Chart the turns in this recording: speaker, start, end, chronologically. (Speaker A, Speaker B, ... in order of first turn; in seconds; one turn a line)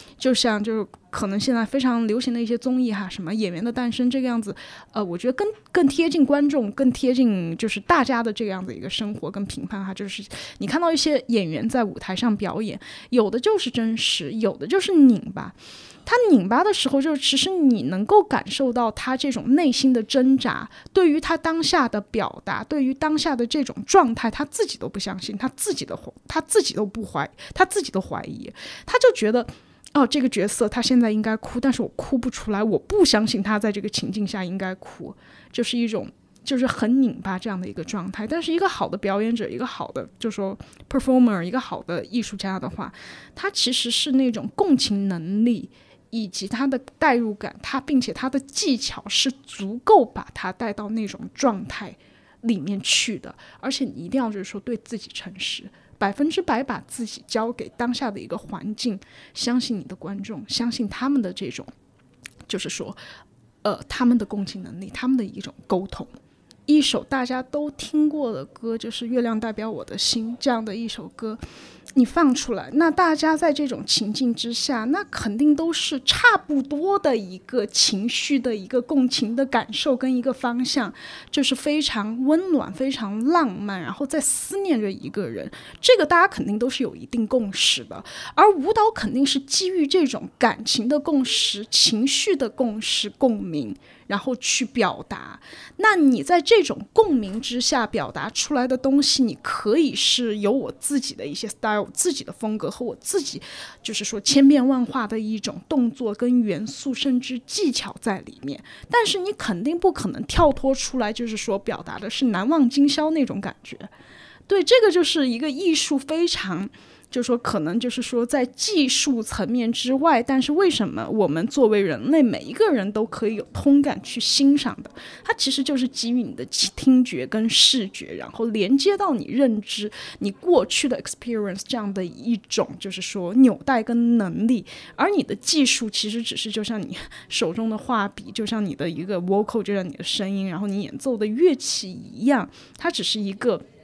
Speaker A: 0.2-61.7
Speaker A: 62.5-63.0
Speaker A: 63.6-66.1
Speaker A: 66.7-71.4
Speaker A: 72.0-113.9
Speaker A: 114.5-143.6